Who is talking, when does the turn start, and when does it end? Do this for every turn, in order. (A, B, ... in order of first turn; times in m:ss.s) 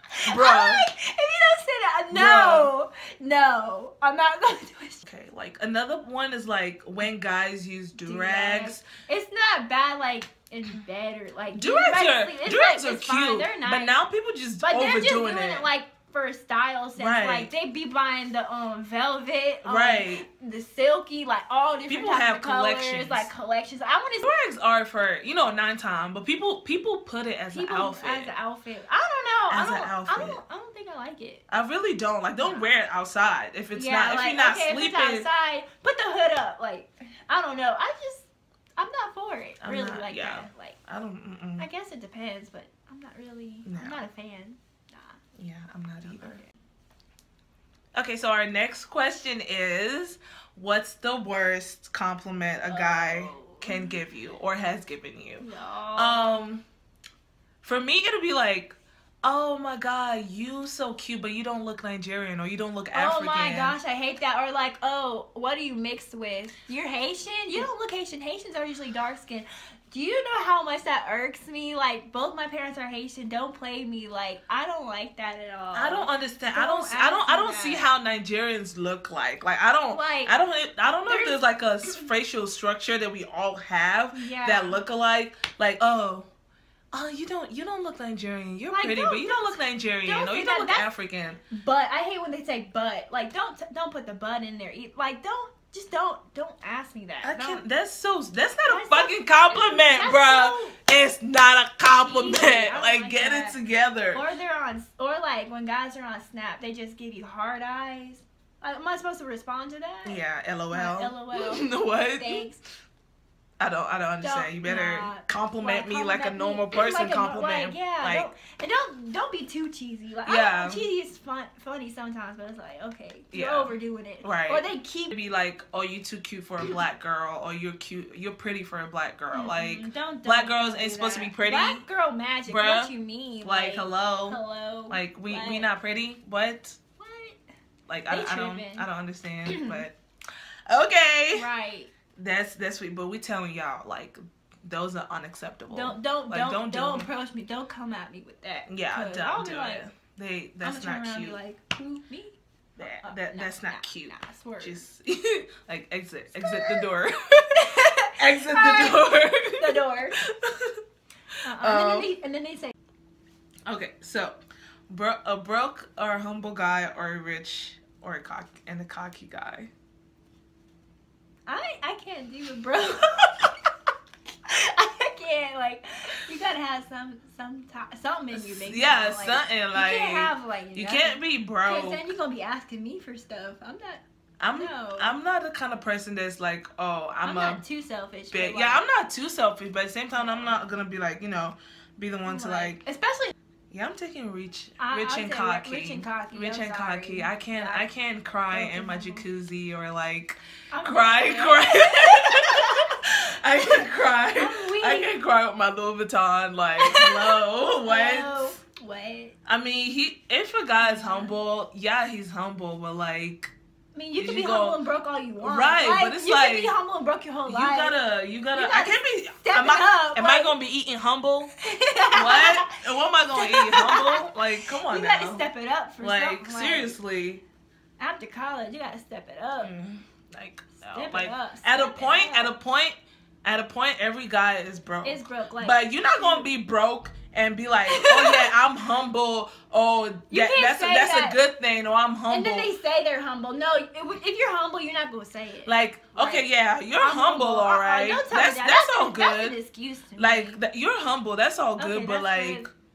0:00.2-0:05.0 A
0:00.2-0:00.9 B
0:02.1-0:02.7 B
0:05.0-0:08.8 B
0:07.9-0:14.0 A
0:11.5-0:15.7 B
0:14.6-0:24.3 A
0:17.0-0:17.5 B
0:19.6-0:20.2 B
0:21.9-0:23.3 B
0:24.2-0:28.3 B
0:27.5-0:31.4 A
0:29.5-0:30.4 B
0:31.5-0:35.3 B
0:32.3-0:32.8 A
0:33.7-0:40.8 A
0:39.6-0:41.7 B
0:41.6-0:45.2 A
0:43.6-0:44.0 B
0:45.4-0:46.4 B
0:46.0-0:46.5 A
0:47.9-0:56.6 B
0:52.7-0:54.0 A
0:55.4-0:56.4 A
0:57.6-1:03.8 B
1:02.9-1:17.8 A
1:15.7-1:26.3 B
1:19.9-1:20.3 A
1:21.0-1:21.9 A
1:24.1-1:24.8 A
1:26.9-1:31.4 B
1:28.7-1:30.9 A
1:31.5-1:37.6 A
1:37.2-1:44.2 B
1:38.6-1:40.8 A
1:42.0-1:43.6 A
1:44.1-1:52.6 A
1:50.0-1:52.4 B
1:53.6-1:58.3 B
1:54.2-2:05.1 A
2:00.2-2:00.8 B
2:03.3-2:11.8 B
2:09.3-2:15.7 A
2:12.4-2:12.9 B
2:13.4-2:16.8 B
2:17.0-2:17.4 A
2:17.9-2:19.9 B
2:18.1-2:18.9 A
2:19.4-2:19.8 A
2:20.7-2:21.5 B
2:21.3-2:21.9 A
2:22.2-2:27.1 B
2:25.7-2:29.8 A
2:28.7-2:31.4 B
2:30.6-2:34.8 A
2:32.8-2:40.8 B
2:37.6-2:39.0 A
2:39.6-2:40.2 A
2:41.4-2:42.7 A
2:41.6-2:42.1 B
2:43.7-2:44.4 B
2:44.9-2:49.7 B
2:51.5-2:53.5 A
2:54.4-3:04.0 A
2:58.3-3:02.0 B
3:04.4-3:07.6 B
3:04.5-3:05.2 A
3:07.2-3:08.9 A
3:08.3-3:12.8 B
3:10.2-3:10.6 A
3:12.2-3:13.3 A
3:13.7-3:28.5 B
3:14.8-3:17.8 A
3:18.5-3:19.2 A
3:20.7-3:22.9 A
3:24.4-3:25.1 A
3:26.8-3:29.3 A
3:29.4-3:33.5 B
3:30.8-3:31.3 A
3:33.9-3:38.0 A
3:34.2-3:34.8 B
3:35.4-3:36.7 B
3:37.5-3:41.5 B
3:38.5-3:40.5 A
3:41.6-3:42.8 A
3:42.1-3:45.4 B
3:43.3-3:47.0 A
3:46.0-3:47.4 B
3:48.0-3:49.7 A
3:49.6-4:02.7 B
3:50.9-3:52.5 A
3:55.0-3:56.5 A
3:57.9-3:58.5 A
4:00.3-4:01.4 A
4:02.3-4:10.6 A
4:05.6-4:09.6 B
4:10.2-4:12.7 B
4:11.8-4:12.7 A